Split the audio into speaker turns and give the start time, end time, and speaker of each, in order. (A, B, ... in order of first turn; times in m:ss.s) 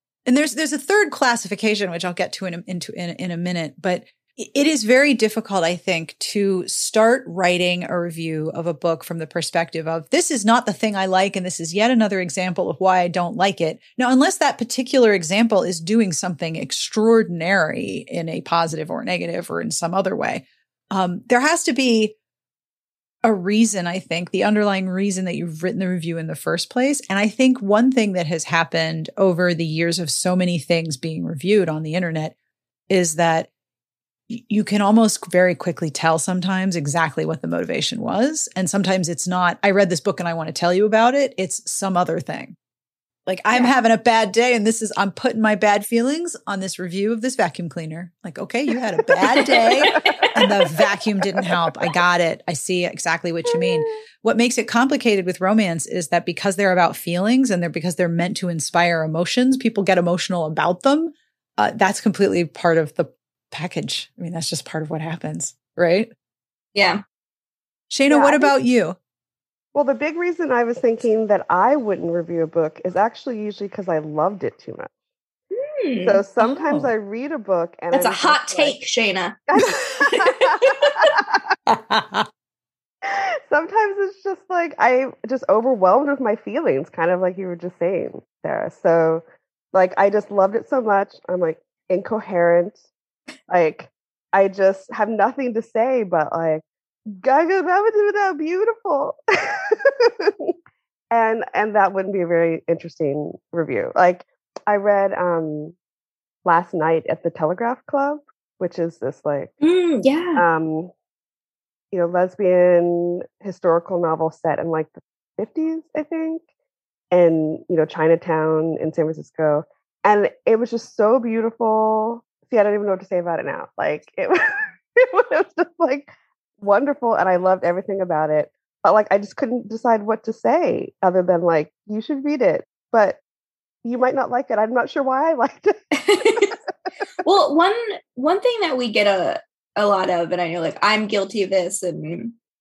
0:00.2-0:22.1 A
0:23.2-0:32.3 A
0:32.9-0:33.5 A
0:34.3-0:42.6 A
0:43.2-1:06.1 A
0:49.3-0:50.6 B
1:06.7-1:07.0 B
1:07.9-1:09.0 A
1:08.1-1:08.5 C
1:09.7-1:14.9 C
1:15.6-1:16.6 B
1:16.0-1:18.8 C
1:17.9-1:19.4 B
1:19.5-1:21.5 C
1:20.0-1:20.7 B
1:21.7-1:22.3 A
1:23.0-1:32.8 C
1:33.5-1:40.5 C
1:41.1-1:45.7 C
1:46.4-1:49.5 C
1:49.6-1:50.4 B
1:50.4-1:50.9 C
1:51.9-1:56.4 C
1:57.1-2:13.2 C
2:13.8-2:16.5 C
2:15.9-2:16.6 B
2:17.2-2:22.3 B